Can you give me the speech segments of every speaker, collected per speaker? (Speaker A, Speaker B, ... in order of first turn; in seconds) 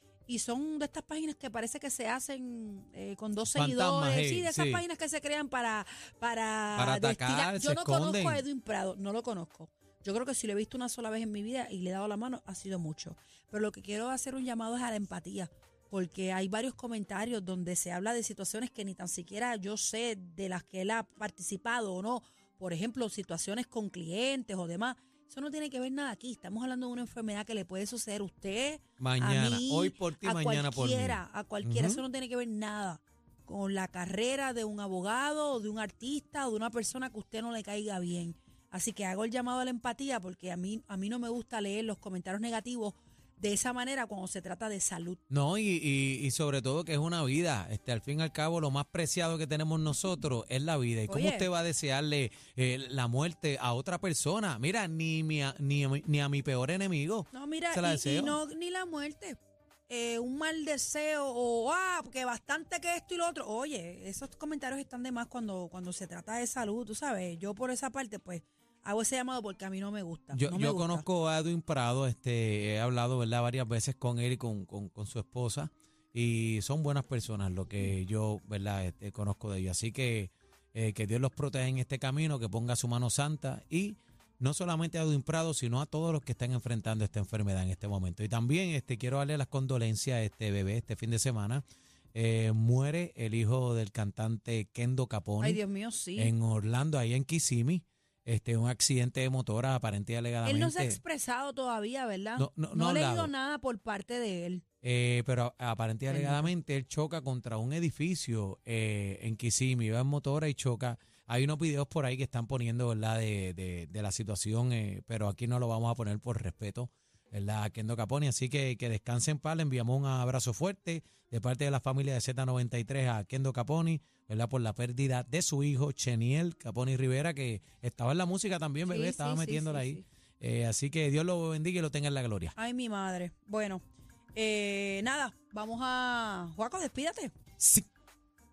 Speaker A: 0.3-45.2, 51.1-51.5, 57.3-71.0, 95.4-96.3, 100.4-104.6, 106.1-106.5, 128.8-130.0, 132.6-133.8, 134.3-137.3
Speaker B: 3.5-4.8, 6.8-8.4, 29.0-32.0, 45.3-58.4, 70.3-95.6, 96.2-101.0, 102.4-103.3, 104.8-132.6, 137.6-137.9